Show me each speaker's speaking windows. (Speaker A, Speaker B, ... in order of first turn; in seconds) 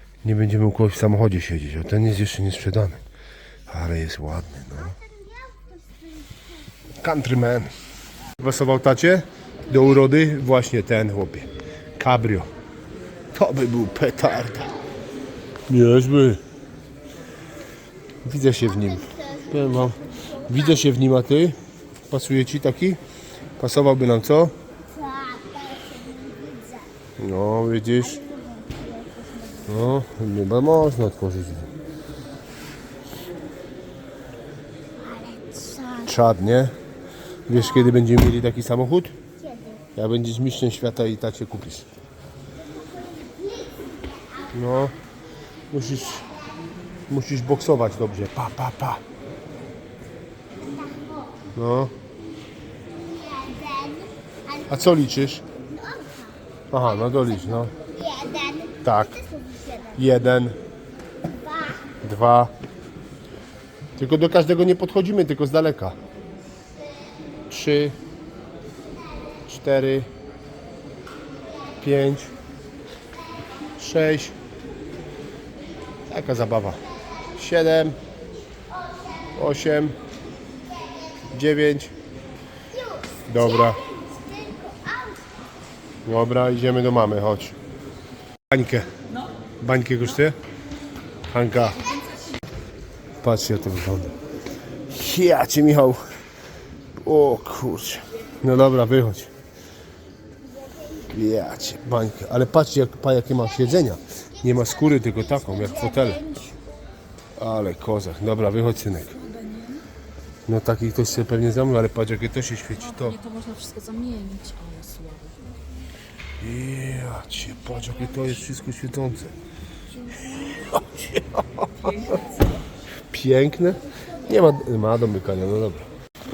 Speaker A: 0.2-3.0, 3.7-5.0, 7.0-7.7, 8.4-12.5, 13.3-14.7, 15.7-16.4, 18.2-21.6, 22.1-23.0, 23.6-24.6, 27.2-28.2, 29.6-31.7, 36.1-36.8, 37.5-39.2, 39.9-41.9, 44.5-45.0, 45.7-46.3, 47.1-49.0, 51.5-51.9, 54.7-55.4, 56.7-57.7, 58.8-59.2, 59.9-60.6, 62.0-62.5, 64.0-66.0, 67.5-68.0, 69.5-70.1, 71.8-72.3, 73.8-74.3, 76.1-76.8, 77.4-78.0, 79.3-80.0, 81.3-81.9, 83.3-83.8, 86.0-87.6, 88.5-88.9, 89.6-90.4, 91.3-91.9, 93.2-94.2, 94.9-96.0, 97.0-99.3, 101.1-106.2, 107.4-109.2, 110.5-113.2, 116.4-119.3, 120.3-122.1, 123.1-125.9
Speaker B: 4.8-6.7, 18.6-20.9, 24.9-26.9, 27.9-29.9, 35.0-36.2, 37.5-37.9, 39.4-39.9, 42.5-44.5, 46.0-46.5, 50.5-51.5, 52.9-60.0, 61.3-61.9, 78.7-79.3, 82.7-85.5, 100.4-101.1, 104.4-106.6
Speaker C: 109.1-109.8, 112.7-115.4, 121.8-122.6